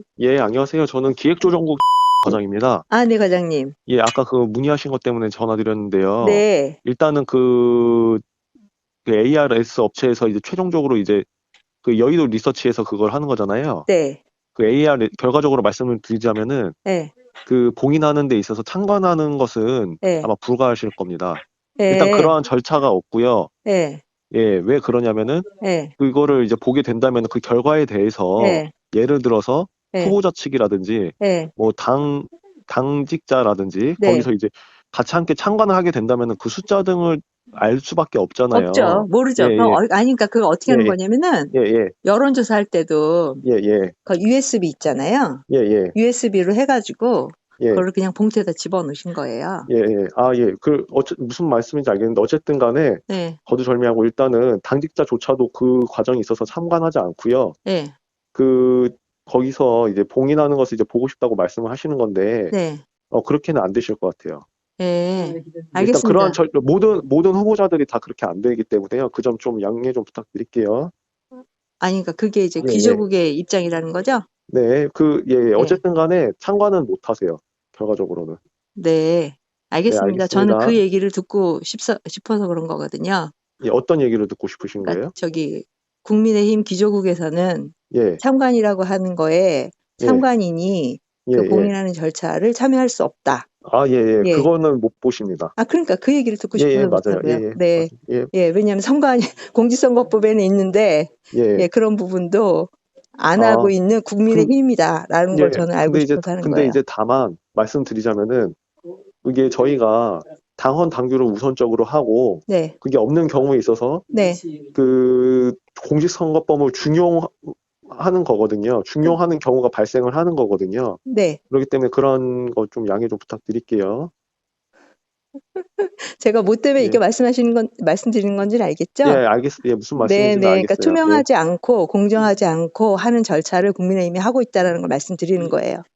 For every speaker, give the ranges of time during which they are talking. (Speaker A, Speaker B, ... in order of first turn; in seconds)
Speaker A: 0.2-2.9, 3.9-8.2, 9.1-11.3, 11.8-13.9, 14.5-16.8, 17.4-23.5, 24.3-25.5, 26.0-39.8, 40.7-41.0, 41.5-42.0, 43.4-44.0, 45.5-46.0, 47.6-47.9, 49.7-57.6, 58.3-62.5, 63.1-64.5, 65.8-70.9, 72.6-73.0, 74.5-78.4, 79.9-80.8, 83.6-85.1, 87.9-88.2, 90.0-90.3, 91.3-91.7, 93.6-95.5, 96.5-98.3, 101.3-101.7, 103.4-103.7, 105.3-108.6, 109.2-114.1, 114.7-124.1, 126.8-127.0, 129.0-131.3
Speaker B: 2.9-3.8, 6.2-6.8, 13.9-14.2, 16.9-17.1, 20.0-20.3, 21.8-22.4, 23.6-24.0, 25.6-25.9, 28.4-28.7, 29.9-30.2, 31.2-31.5, 34.0-34.3, 38.5-43.5, 44.1-49.7, 53.1-53.4, 57.6-58.0, 62.5-62.8, 64.8-66.4, 71.8-74.3, 75.6-75.8, 78.8-83.3, 84.8-93.5, 94.2-94.5, 95.6-106.8, 112.5-112.8, 114.1-114.5, 121.1-121.4, 125.5-129.2, 130.0-135.8